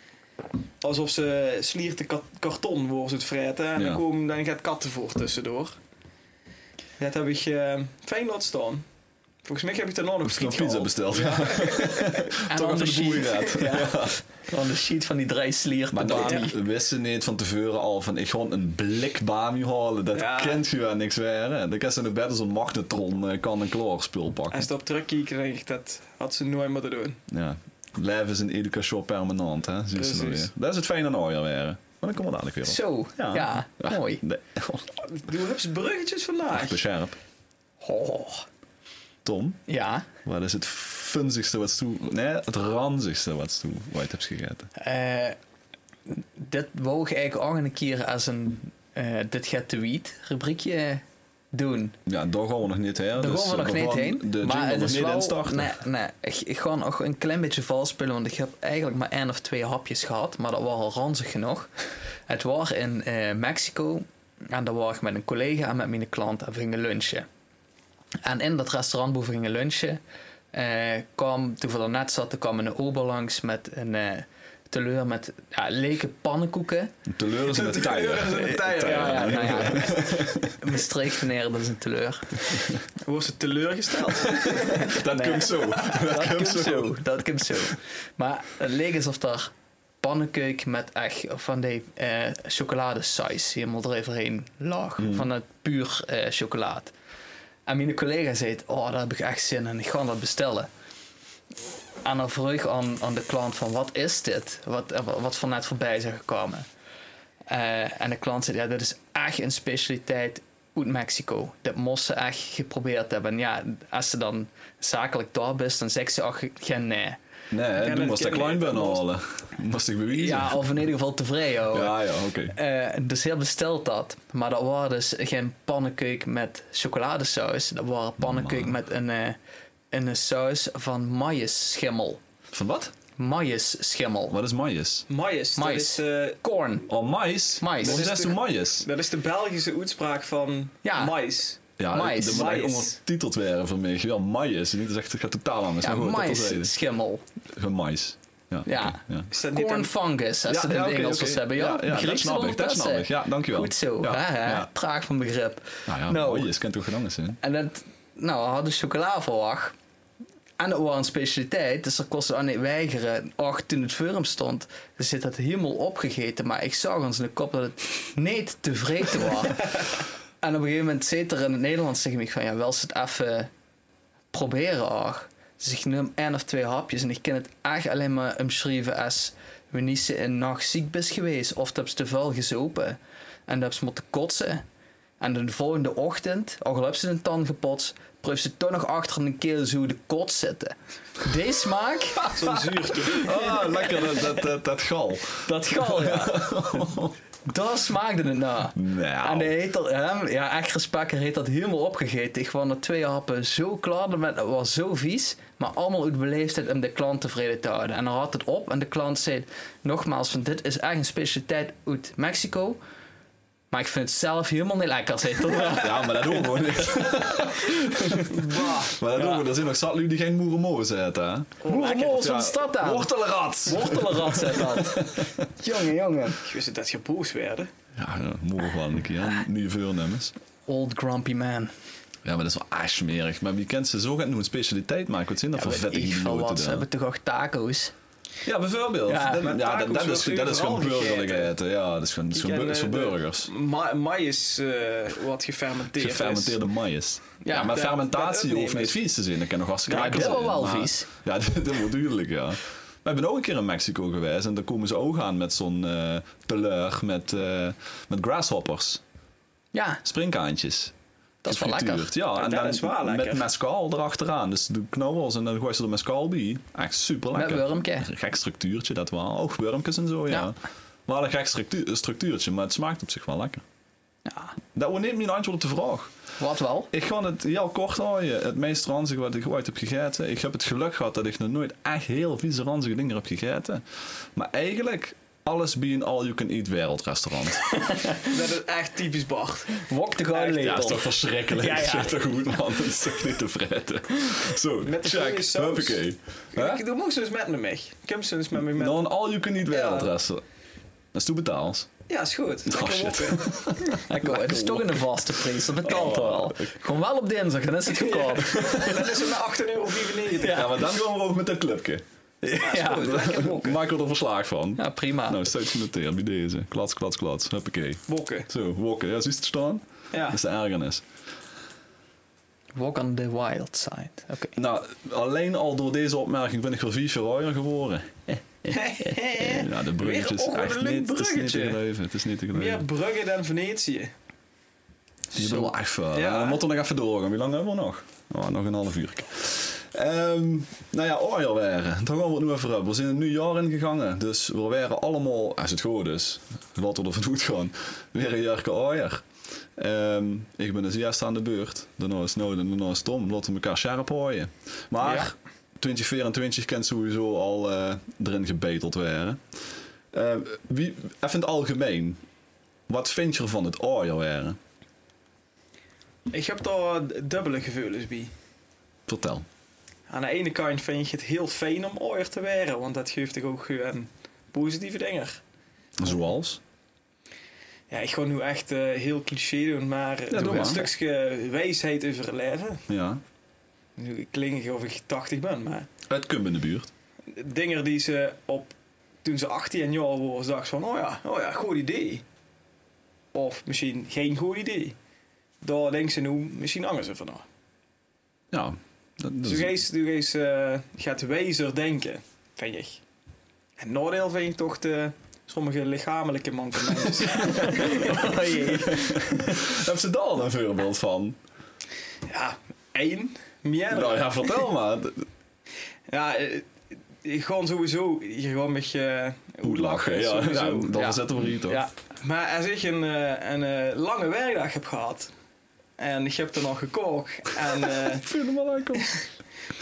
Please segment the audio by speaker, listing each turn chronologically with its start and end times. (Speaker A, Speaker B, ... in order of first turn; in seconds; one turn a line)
Speaker A: 0.8-5.8
Speaker B: 3.8-4.0
Speaker A: 7.0-8.8
Speaker A: 9.4-12.3
Speaker B: 10.2-14.2
Speaker C: 12.5-16.6
Speaker B: 15.9-24.7
Speaker A: 20.1-20.6
Speaker A: 24.5-27.2
Speaker B: 27.3-34.9
Speaker A: 29.9-30.5
Speaker C: 32.6-34.2
Speaker A: 35.0-36.8
Speaker B: 36.5-37.1
Speaker C: 37.8-38.5
Speaker B: 39.2-39.6
Speaker C: 39.7-40.0
Speaker B: 40.2-44.7
Speaker C: 44.8-45.4
Speaker C: 46.1-52.0
Speaker B: 52.0-55.8
Speaker C: 53.2-61.7
Speaker C: 62.3-67.2
Speaker C: 68.2-70.0
Speaker C: 70.5-76.9
Speaker B: 77.0-80.6
Speaker A: 77.4-79.8
Speaker C: 78.7-82.6
Speaker A: 83.0-85.0
Speaker B: 84.4-87.0
Speaker C: 84.8-96.9
Speaker B: 95.0-95.3
Speaker C: 97.7-100.7
Speaker C: 102.0-106.7
Speaker C: 107.5-117.2
Speaker B: 117.5-120.7
Speaker A: 117.8-119.0
Speaker C: 120.1-122.0
Speaker B: 121.7-122.5
Speaker C: 122.5-129.4
Speaker B: 128.2-128.7
Speaker C: 129.9-132.2
Speaker B: 132.5-132.9
Speaker C: 133.2-134.3
Speaker B: 134.3-135.1
Speaker A: 135.1-136.4
Speaker C: 135.6-136.9
Speaker B: 136.9-138.9
Speaker C: 137.6-138.0
Speaker A: 137.8-143.0
Speaker C: 140.8-141.2
Speaker B: 141.8-146.7
Speaker C: 141.9-142.4
Speaker C: 145.8-147.2
Speaker B: 147.6-149.3
Speaker C: 148.7-156.5
Speaker A: 149.3-149.9
Speaker B: 150.5-154.7
Speaker B: 155.9-157.4
Speaker C: 157.4-159.7
Speaker C: 160.6-169.8
Speaker C: 170.4-173.5
Speaker C: 174.3-184.6
Speaker C: 185.2-192.6
Speaker A: 192.3-193.8
Speaker B: 192.6-197.1
Speaker C: 195.4-196.8
Speaker C: 197.4-212.8
Speaker B: 198.7-199.5
Speaker C: 213.7-216.9
Speaker B: 215.5-225.4
Speaker C: 217.7-219.4
Speaker A: 218.3-218.9
Speaker A: 221.6-222.2
Speaker C: 221.7-223.1
Speaker C: 223.6-226.4
Speaker A: 226.4-227.7
Speaker B: 227.9-230.3
Speaker C: 230.7-231.7
Speaker B: 232.2-236.8
Speaker C: 235.5-237.9
Speaker B: 238.4-243.5
Speaker C: 239.1-239.4
Speaker A: 239.4-241.5
Speaker A: 242.3-246.6
Speaker B: 246.0-259.0
Speaker C: 247.4-247.7
Speaker A: 247.5-249.0
Speaker A: 249.9-250.3
Speaker C: 249.9-251.1
Speaker C: 259.7-260.0
Speaker B: 260.0-260.9
Speaker C: 261.4-262.1
Speaker B: 261.4-273.6
Speaker A: 262.3-263.4
Speaker C: 267.3-268.1
Speaker C: 274.2-274.5
Speaker B: 274.7-276.1
Speaker C: 276.4-276.9
Speaker B: 276.9-283.8
Speaker B: 284.3-287.6
Speaker C: 287.7-288.3
Speaker A: 288.2-291.0
Speaker C: 289.8-292.6
Speaker B: 290.6-296.8
Speaker A: 294.8-296.0
Speaker A: 296.5-299.1
Speaker B: 298.5-300.4
Speaker A: 299.7-300.1
Speaker B: 301.1-301.9
Speaker A: 302.1-303.6
Speaker B: 302.7-306.7
Speaker C: 304.0-309.0
Speaker A: 307.9-310.8
Speaker C: 310.4-310.7
Speaker B: 310.4-312.0
Speaker C: 312.4-313.2
Speaker A: 312.6-313.8
Speaker B: 312.9-321.0
Speaker C: 314.8-315.5
Speaker A: 318.1-318.5
Speaker A: 320.1-320.4
Speaker C: 322.7-324.6
Speaker B: 324.6-328.7
Speaker A: 328.7-331.8
Speaker B: 329.3-332.9
Speaker A: 332.5-334.1
Speaker B: 335.3-349.2
Speaker A: 335.4-336.6
Speaker B: 349.8-359.4
Speaker B: 360.1-362.2
Speaker B: 362.9-364.6
Speaker A: 366.3-368.3
Speaker B: 369.1-369.4
Speaker A: 370.1-375.4
Speaker B: 376.0-376.6
Speaker A: 377.9-382.8
Speaker B: 380.3-380.9
Speaker B: 382.9-383.2
Speaker A: 384.0-385.9
Speaker B: 386.1-386.9
Speaker A: 387.3-388.7
Speaker A: 389.2-392.2
Speaker A: 393.3-394.9
Speaker A: 395.6-397.4
Speaker B: 398.5-399.8
Speaker A: 399.4-403.0
Speaker A: 403.8-409.0
Speaker C: 407.6-409.5
Speaker B: 407.6-411.4
Speaker A: 412.3-414.6
Speaker B: 413.9-415.2
Speaker A: 416.1-421.0
Speaker B: 419.6-421.8
Speaker C: 420.9-421.9
Speaker A: 422.2-425.3
Speaker A: 426.0-428.3
Speaker B: 428.0-429.2
Speaker A: 429.0-429.2